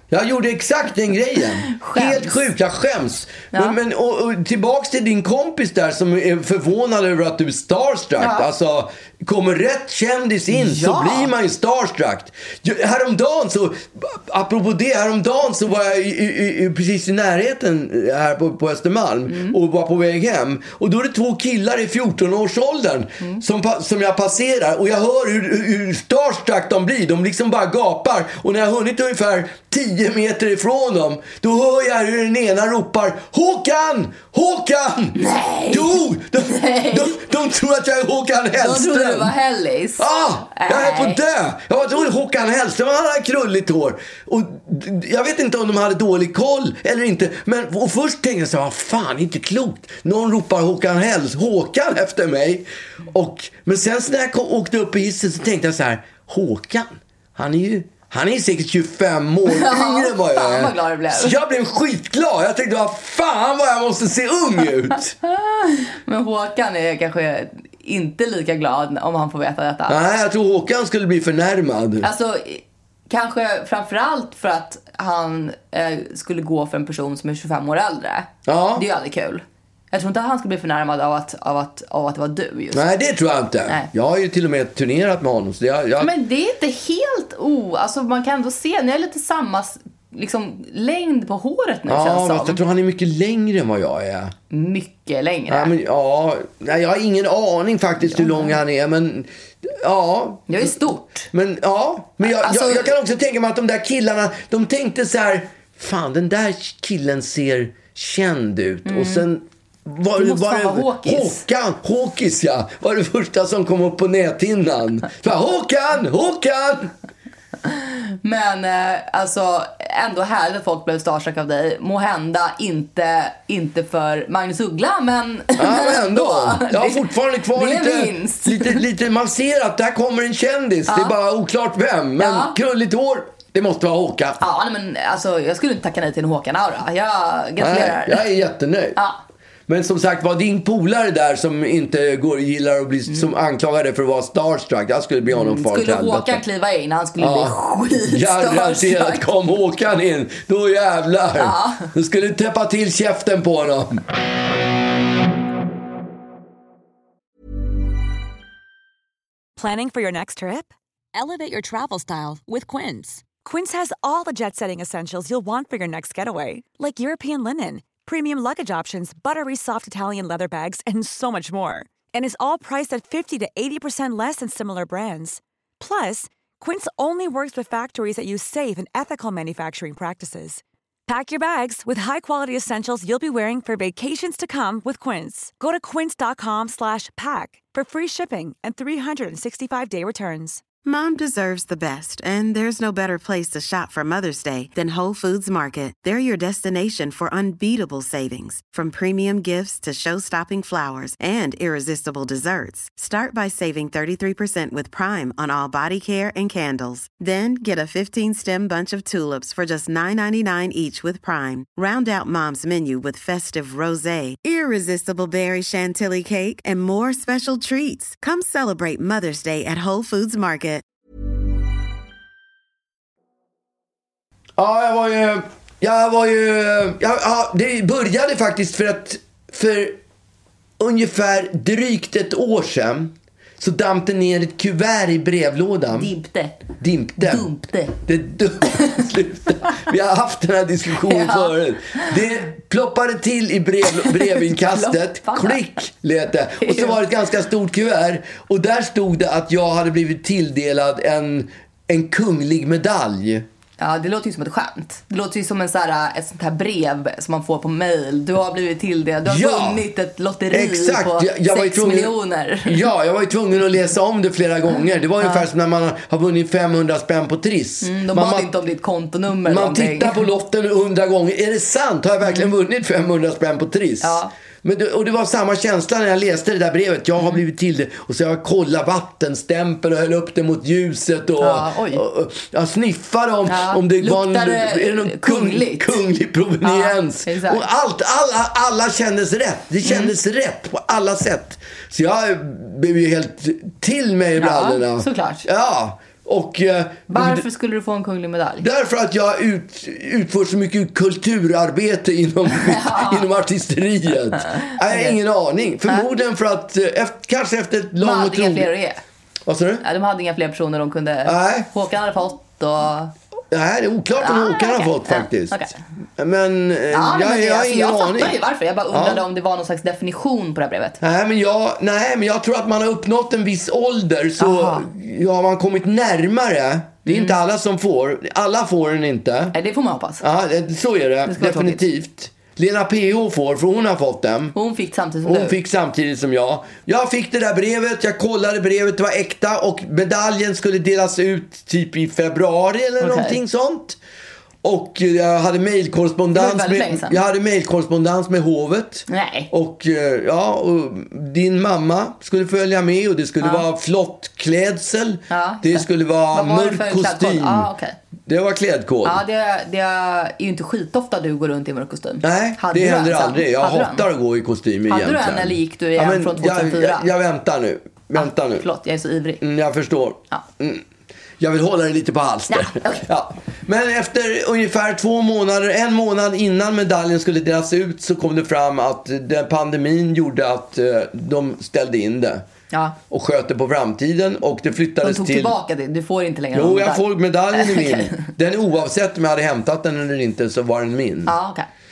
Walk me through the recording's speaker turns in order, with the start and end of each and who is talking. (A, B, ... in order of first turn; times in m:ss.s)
0:00.1-0:35.2 A
0:01.6-0:02.4 B
0:08.2-0:08.5 B
0:10.5-0:11.3 B
0:19.3-0:19.5 B
0:35.1-0:37.2 B
0:35.7-0:39.3 A
0:38.5-0:41.2 B
0:40.0-1:05.1 A
0:59.5-1:01.4 B
1:05.2-1:10.0 B
1:09.9-1:12.1 A
1:12.0-1:22.8 B
1:18.4-1:18.8 A
1:22.7-1:26.1 A
1:26.0-1:32.6 B
1:31.9-1:34.3 A
1:34.5-1:35.7 B
1:35.5-1:40.8 A
1:38.1-1:38.5 B
1:40.5-1:41.3 B
1:41.3-1:56.9 A
1:42.2-1:42.9 B
1:48.8-1:49.2 B
1:50.2-1:51.4 B
1:57.6-2:08.8 B
2:05.6-2:14.4 A
2:10.9-2:11.1 B
2:12.2-2:12.6 B
2:14.4-2:18.2 B
2:17.6-2:19.0 A
2:19.0-2:19.2 B
2:19.7-2:26.4 A
2:25.3-2:29.3 B
2:27.2-2:34.0 A
2:31.4-2:31.9 B
2:39.6-3:10.6 C
3:10.8-3:40.8 D
3:44.6-3:50.0 A
3:50.8-3:56.1 A
3:55.9-3:56.6 B
3:56.8-4:13.4 A
3:57.2-3:58.0 B
4:01.0-4:02.2 B
4:03.9-4:05.6 B
4:06.6-4:07.0 B
4:13.8-4:22.9 B
4:19.2-4:19.8 A
4:20.5-4:22.1 A
4:22.6-4:28.5 A
4:25.2-4:25.4 B
4:27.8-4:30.2 B
4:29.4-4:57.4 A
4:34.0-4:34.3 B
4:41.4-4:42.0 B
4:43.4-4:46.0 B
4:46.6-4:47.7 B
4:49.8-4:50.1 B
4:54.4-4:55.4 B
4:57.1-4:58.7 B
4:58.6-5:08.7 A
5:02.6-5:03.2 B
5:04.7-5:05.2 B
5:08.0-5:09.0 B
5:09.4-5:09.8 A
5:09.8-5:13.1 B
5:11.2-5:11.7 A
5:13.5-5:18.4 A
5:14.2-5:15.8 B
5:16.9-5:21.0 B
5:18.9-5:19.2 A
5:21.0-5:29.5 A
5:24.4-5:24.9 B
5:27.0-5:27.4 B
5:29.5-5:30.2 B
5:30.2-5:34.5 A
5:31.3-5:31.8 B
5:34.5-5:35.6 B
5:35.2-5:44.0 A
5:43.0-5:43.4 B
5:44.6-5:57.7 A
5:46.3-5:47.2 B
5:49.1-5:49.5 B
5:53.4-5:53.6 B
5:55.3-5:58.0 B
5:58.2-5:59.2 A
5:59.0-6:04.0 B
6:02.2-6:08.6 A
6:04.9-6:07.1 B
6:08.2-6:09.4 B
6:09.4-6:10.8 A
6:11.4-6:22.4 A
6:12.5-6:13.0 B
6:23.1-6:25.5 A
6:25.0-6:28.3 B
6:26.5-6:31.3 A
6:31.2-6:31.7 B